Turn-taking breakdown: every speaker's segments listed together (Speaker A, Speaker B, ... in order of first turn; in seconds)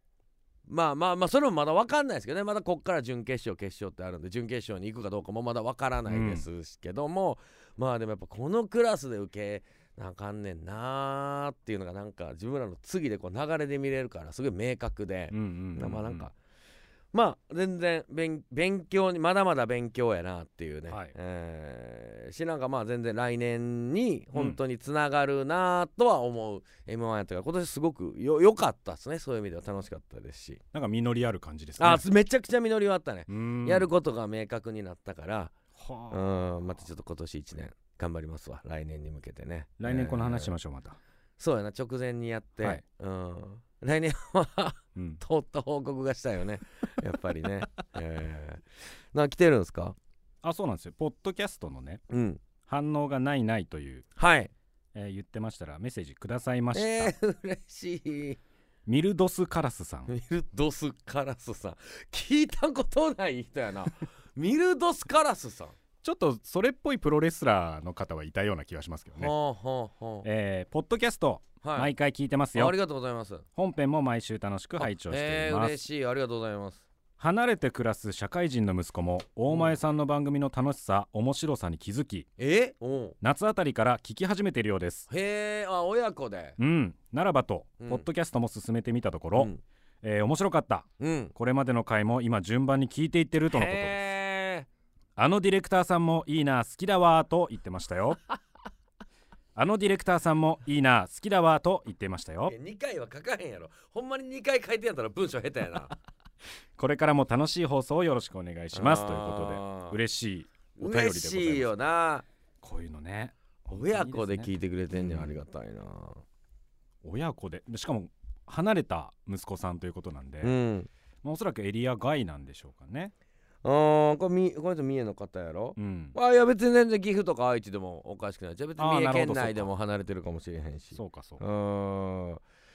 Speaker A: 0.7-16.3, 17.1-30.6, 31.8-35.5, 36.1-40.5, 41.4-50.0, 52.1-52.4, 54.1-54.5, 56.7-58.4, 60.1-65.8, 69.2-70.3, 71.6-71.9, 72.5-73.4, 74.8-76.8, 82.4-83.2, 85.1-86.6, 87.8-88.1, 89.4-89.6, 91.0-91.3, 93.5-94.7, 102.5-105.9, 108.7-110.0, 110.8-112.2, 113.7-116.2, 120.4-120.9, 123.6-132.4
Speaker B: 6.1-6.4, 15.3-16.3, 20.9-21.1, 30.7-32.1, 33.3-33.9, 35.8-36.7, 39.8-41.0, 45.0-45.2, 50.4-52.0, 52.6-54.0, 54.9-57.1, 58.9-60.1, 66.0-69.3, 70.2-72.7, 73.5-75.8, 77.2-82.3, 83.2-85.1, 86.6-94.0, 95.2-98.2, 99.5-102.5, 106.8-111.7, 112.6-115.3, 117.0-120.5, 121.2-123.1, 125.8-126.2, 128.8-129.7, 130.9-131.4